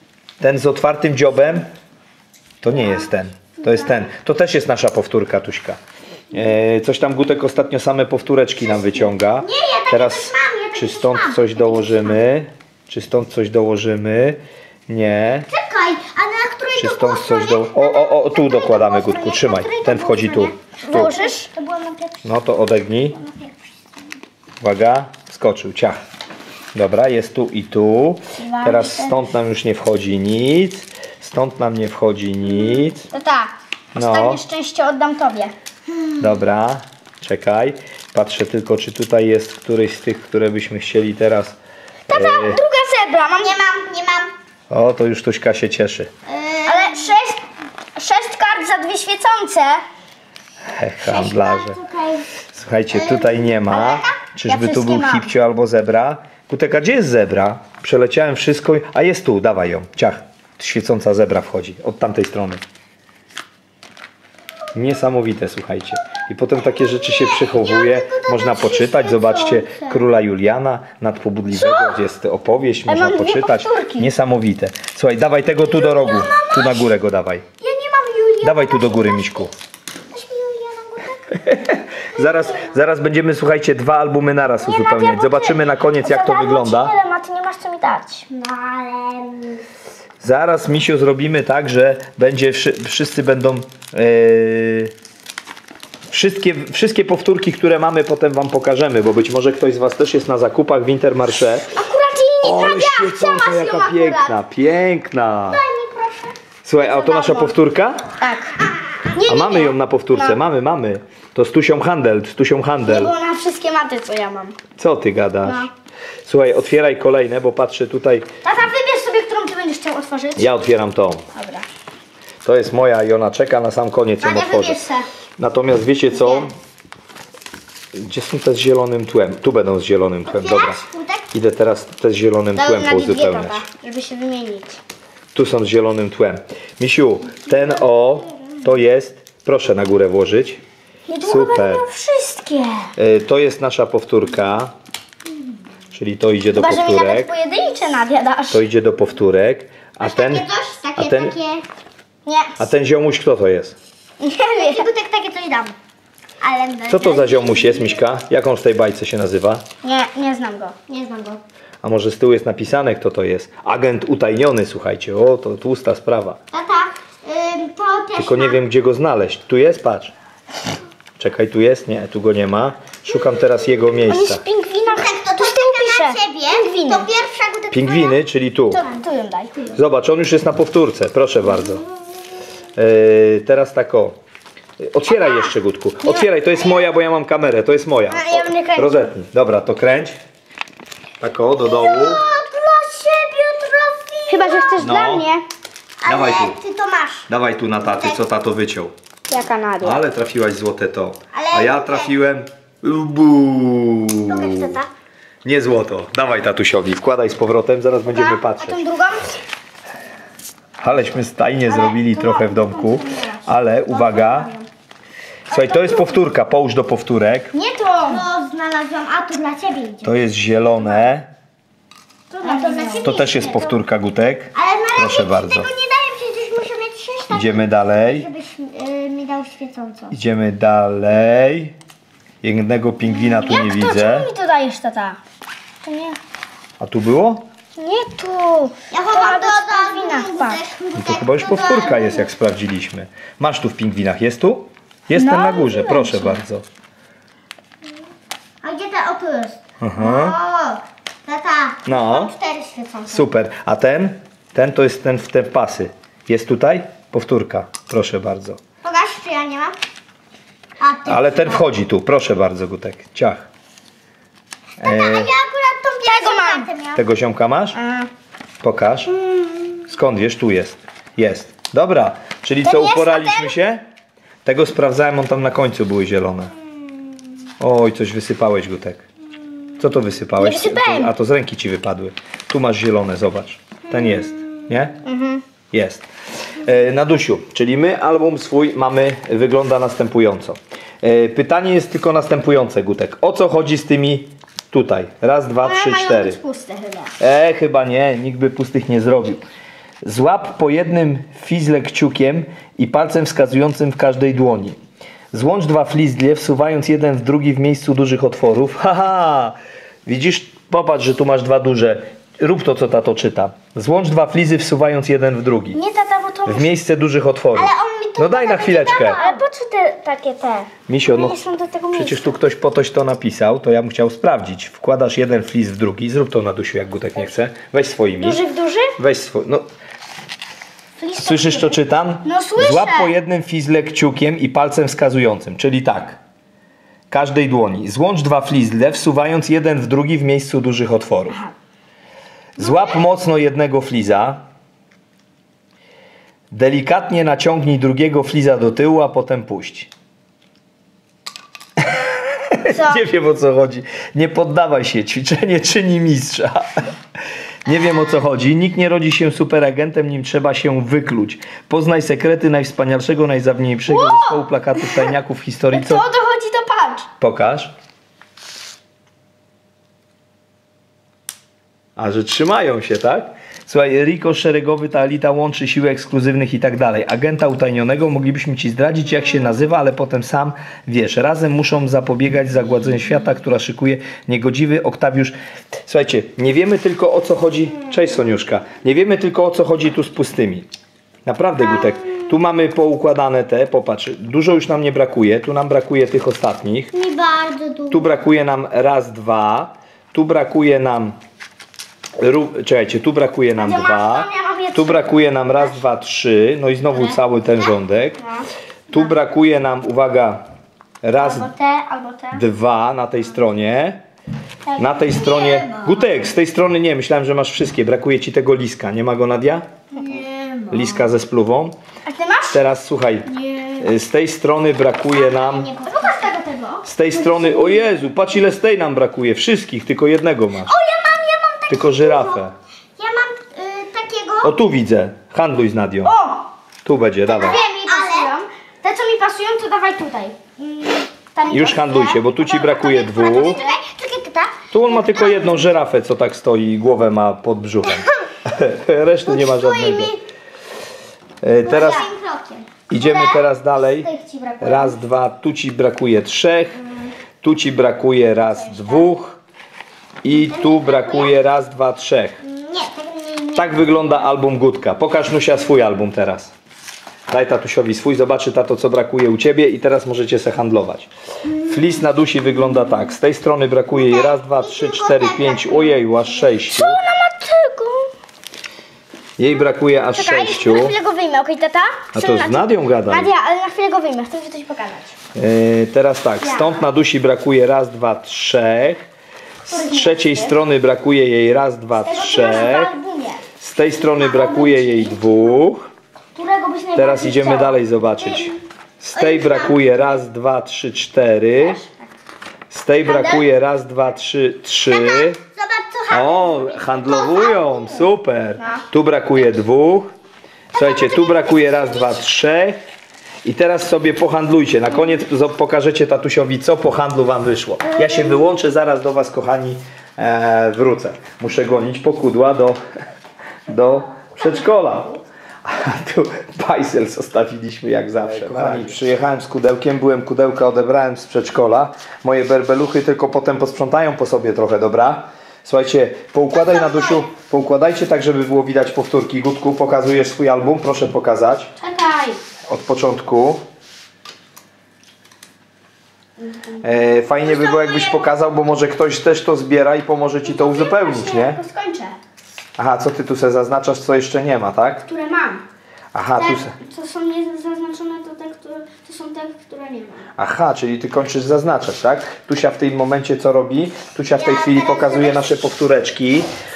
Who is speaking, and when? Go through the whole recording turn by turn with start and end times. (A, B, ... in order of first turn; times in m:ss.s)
0:00.4-0:01.7 A
0:02.6-0:05.8 A
0:06.3-0:15.5 A
0:09.4-0:12.2 B
0:15.5-0:19.8 B
0:16.8-0:21.1 A
0:19.4-0:21.5 C
0:20.8-0:22.3 B
0:22.2-0:23.2 A
0:23.1-0:23.5 B
0:24.6-0:26.0 A
0:26.7-0:33.1 A
0:28.3-0:29.2 C
0:33.1-0:35.5 C
0:34.0-0:34.4 A
0:36.2-0:41.6 A
0:42.1-0:42.6 A
0:42.1-0:43.6 C
0:43.4-0:44.3 B
0:44.7-0:46.1 A
0:46.3-0:47.1 B
0:46.7-0:47.4 C
0:48.0-0:49.8 C
0:50.6-0:51.8 A
0:51.0-0:52.3 B
0:52.5-1:02.6 A
0:52.9-0:54.2 B
0:54.4-0:55.3 C
1:04.7-1:17.5 A
1:06.8-1:08.9 B
1:08.6-1:09.9 C
1:11.5-1:12.0 C
1:12.9-1:14.1 C
1:15.6-1:16.9 B
1:17.6-1:18.9 C
1:17.7-1:19.4 B
1:18.4-1:19.5 A
1:20.1-1:21.2 B
1:21.3-1:27.0 A
1:24.6-1:28.3 C
1:28.3-1:29.6 B
1:30.2-1:34.9 A
1:36.1-1:41.8 A
1:41.7-1:44.4 C
1:42.4-1:45.6 A
1:45.7-1:46.3 B
1:46.6-1:48.1 A
1:46.8-1:47.6 C
1:48.2-1:50.4 C
1:49.2-1:53.1 A
1:52.8-1:54.6 C
1:54.8-1:55.7 A
1:55.4-1:55.7 C
1:56.3-1:58.3 A
1:58.4-2:00.5 C
2:00.4-2:01.2 A
2:01.4-2:01.6 C
2:02.4-2:04.8 A
2:04.2-2:05.1 C
2:05.4-2:06.5 A
2:06.2-2:06.5 C
2:07.9-2:10.8 A
2:10.3-2:11.3 B
2:11.3-2:13.6 A
2:12.6-2:14.8 C
2:15.3-2:20.6 A
2:21.1-2:22.9 C
2:21.2-2:21.9 A
2:23.0-2:24.7 A
2:25.9-2:27.3 A
2:26.5-2:28.6 C
2:28.5-2:31.4 A
2:30.0-2:31.6 B
2:32.3-2:32.6 C
2:32.6-2:33.8 A
2:34.2-2:34.9 C
2:34.6-2:35.7 B
2:36.4-2:38.0 B
2:36.9-2:39.6 A
2:39.8-2:40.8 C
2:40.9-2:41.4 B
2:41.8-2:46.4 A
2:46.5-2:48.6 B
2:48.2-2:50.1 A
2:51.2-2:54.4 A
2:54.1-2:57.1 C
2:54.9-2:58.2 B
2:57.7-2:58.8 A
2:58.7-2:59.8 C
2:59.7-3:01.8 A
3:02.8-3:04.2 A
3:04.8-3:10.2 A
3:08.1-3:09.1 C
3:11.2-3:12.3 A
3:11.7-3:14.9 B
3:14.3-3:15.5 C
3:14.8-3:15.3 A
3:16.0-3:17.3 B
3:16.0-3:16.6 A
3:17.3-3:18.9 A
3:17.9-3:18.2 B
3:19.3-3:20.0 C
3:19.8-3:24.8 A
3:21.3-3:22.1 B
3:24.3-3:24.9 B
3:25.4-3:28.8 A
3:28.1-3:29.3 C
3:30.8-3:34.5 A
3:31.7-3:34.7 C
3:35.5-3:37.5 A
3:35.5-3:36.2 C
3:37.5-3:38.3 C
3:38.0-3:40.1 B
3:40.0-3:41.3 A
3:42.3-3:43.6 C
3:42.4-3:43.7 B
3:43.0-3:45.7 A
3:44.5-3:50.2 B
3:47.3-3:48.3 A
3:50.1-3:51.8 A
3:52.4-3:54.3 A
3:53.1-3:55.2 C
3:55.8-3:56.2 C
3:56.8-3:57.4 A
3:57.8-4:00.6 C
3:58.9-4:02.3 B
4:01.0-4:06.6 A
4:05.2-4:06.4 C
4:08.6-4:13.3 B
4:09.8-4:10.4 A
4:11.9-4:12.3 A
4:13.1-4:18.6 A
4:18.8-4:19.8 B
4:20.8-4:21.7 B
4:21.1-4:23.5 A
4:24.8-4:25.3 A
4:24.8-4:27.0 B
4:26.0-4:26.7 C
4:27.0-4:27.8 A
4:27.8-4:28.1 C
4:28.6-4:29.1 A
4:29.2-4:29.7 B
4:29.9-4:33.8 A
4:32.7-4:33.2 C
4:32.8-4:33.5 B
4:34.4-4:36.5 A
4:37.6-4:39.0 A
4:39.8-4:45.0 A
4:40.4-4:41.1 C
4:45.0-4:45.4 C
4:45.7-4:46.1 A
4:46.6-4:56.4 A
4:55.6-4:57.1 C
4:57.2-4:59.4 A
5:00.0-5:04.8 A
5:05.3-5:15.8 A
5:15.7-5:16.7 C
5:16.5-5:19.2 A
5:17.5-5:19.4 B
5:19.1-5:22.4 C
5:20.9-5:21.4 A
5:21.9-5:28.4 A
5:28.2-5:29.0 C
5:29.0-5:29.6 A
5:31.0-5:33.1 C
5:31.2-5:36.2 A
5:37.1-5:41.4 A
5:42.6-5:44.4 A
5:42.6-5:42.9 C
5:46.5-5:49.9 A
5:52.0-5:56.9 A
5:52.7-5:53.0 C
5:57.6-6:06.1 A
6:03.9-6:05.1 C
6:05.7-6:07.1 C
6:07.2-6:07.7 A
6:12.0-6:30.7 A
6:31.3-6:36.9 A
6:36.9-6:38.2 B
6:37.9-6:41.2 A
6:42.2-6:48.2 A
6:43.6-6:45.1 C
6:48.2-6:48.5 C
6:48.9-6:50.4 A
6:51.0-6:51.5 A
6:51.2-6:52.4 C
6:52.3-6:54.0 A
6:54.7-6:55.9 C
6:54.8-6:59.7 A
6:55.1-6:55.7 B
7:00.0-7:00.8 B
7:00.7-7:01.8 A
7:02.1-7:02.6 C
7:02.5-7:05.7 A
7:05.1-7:06.3 B
7:05.8-7:08.0 C
7:06.8-7:10.7 A
7:10.7-7:12.4 B
7:11.7-7:12.5 A
7:13.0-7:14.5 B
7:14.4-7:16.1 A
7:16.0-7:16.5 C
7:16.8-7:17.6 A
7:17.3-7:18.3 B
7:17.4-7:20.4 C
7:20.6-7:21.1 B
7:21.3-7:23.8 C
7:21.5-7:23.6 A
7:22.5-7:25.5 B
7:24.7-7:30.2 A
7:29.3-7:30.1 B
7:31.4-7:32.1 A
7:31.6-7:34.6 B
7:32.9-7:34.1 A
7:34.5-7:34.8 C
7:34.6-7:36.8 A
7:37.4-7:39.4 A
7:40.2-7:42.4 A
7:40.3-7:41.3 B
7:42.4-7:44.0 B
7:43.6-7:46.5 A
7:47.3-7:57.0 A
7:53.9-7:56.0 B
7:56.3-7:58.1 C
7:59.4-8:01.0 A
8:00.1-8:05.2 C
8:02.1-8:03.3 A
8:05.4-8:09.0 A
8:06.4-8:06.8 C
8:09.6-8:10.6 C
8:09.7-8:12.9 A
8:12.0-8:13.4 C
8:13.6-8:15.9 A
8:13.9-8:15.4 C
8:16.4-8:18.4 C
8:16.9-8:21.8 A
8:19.2-8:19.6 B
8:21.6-8:21.9 C
8:22.7-8:25.4 A
8:23.1-8:23.4 C
8:24.9-8:28.0 B
8:26.1-8:30.1 A
8:30.7-8:32.8 A
8:30.8-8:31.8 B
8:33.4-8:42.8 A
8:43.7-9:01.7 A
9:01.8-9:02.4 C
9:02.7-9:03.6 A
9:06.4-9:08.2 C
9:06.8-9:11.6 A
9:10.4-9:12.2 C
9:12.8-9:15.0 A
9:15.0-9:15.6 C
9:16.1-9:16.7 A
9:16.4-9:20.3 C
9:20.4-9:26.5 A
9:24.4-9:25.6 B